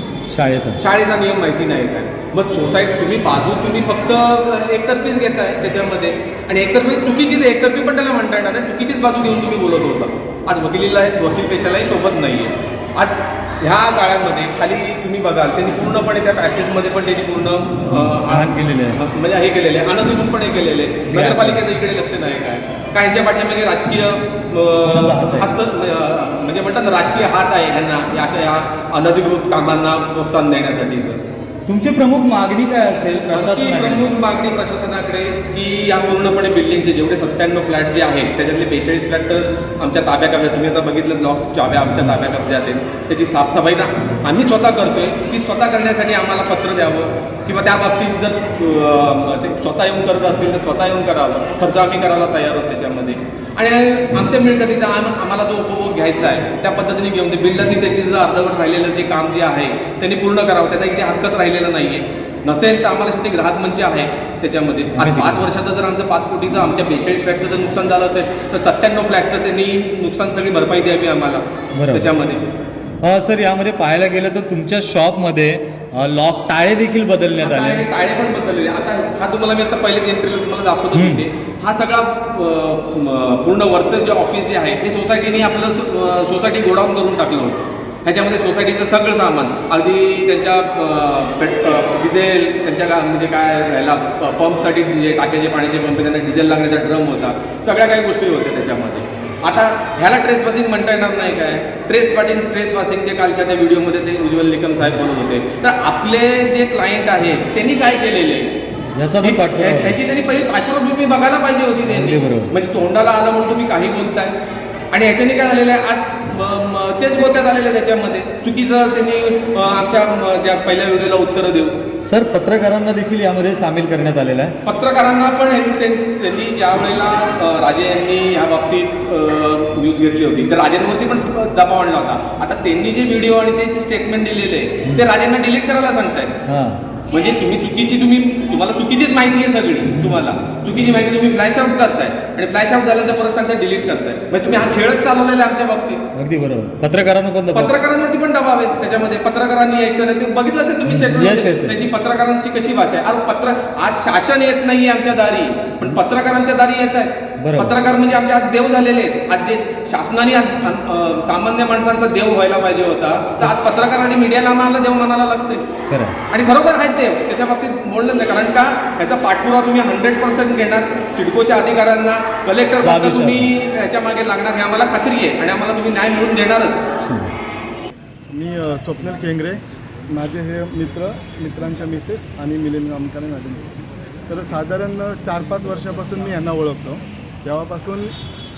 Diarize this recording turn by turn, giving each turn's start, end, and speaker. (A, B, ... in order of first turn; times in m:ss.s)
0:00.3-0:00.8 A
0:00.8-0:31.2 B
0:17.9-0:19.0 A
0:21.1-0:21.6 A
0:24.8-0:25.5 A
0:31.7-0:34.1 A
0:33.3-1:12.5 B
1:04.9-1:05.5 A
1:11.7-1:12.1 A
1:13.0-1:17.8 A
1:17.4-1:48.6 B
1:20.9-1:21.3 A
1:48.9-1:50.0 A
1:49.2-1:54.4 B
1:51.9-1:52.5 A
1:54.9-2:01.8 B
2:02.0-2:04.6 A
2:04.6-2:16.4 B
2:16.4-2:16.9 A
2:17.0-2:26.0 B
2:19.9-2:20.2 A
2:26.1-2:27.7 A
2:27.5-2:45.7 B
2:30.9-2:31.8 A
2:37.4-2:37.8 A
2:45.9-2:46.2 A
2:46.3-2:56.8 B
2:52.8-2:53.5 A
2:57.0-2:57.4 A
2:58.3-3:03.7 C
3:04.3-3:08.1 C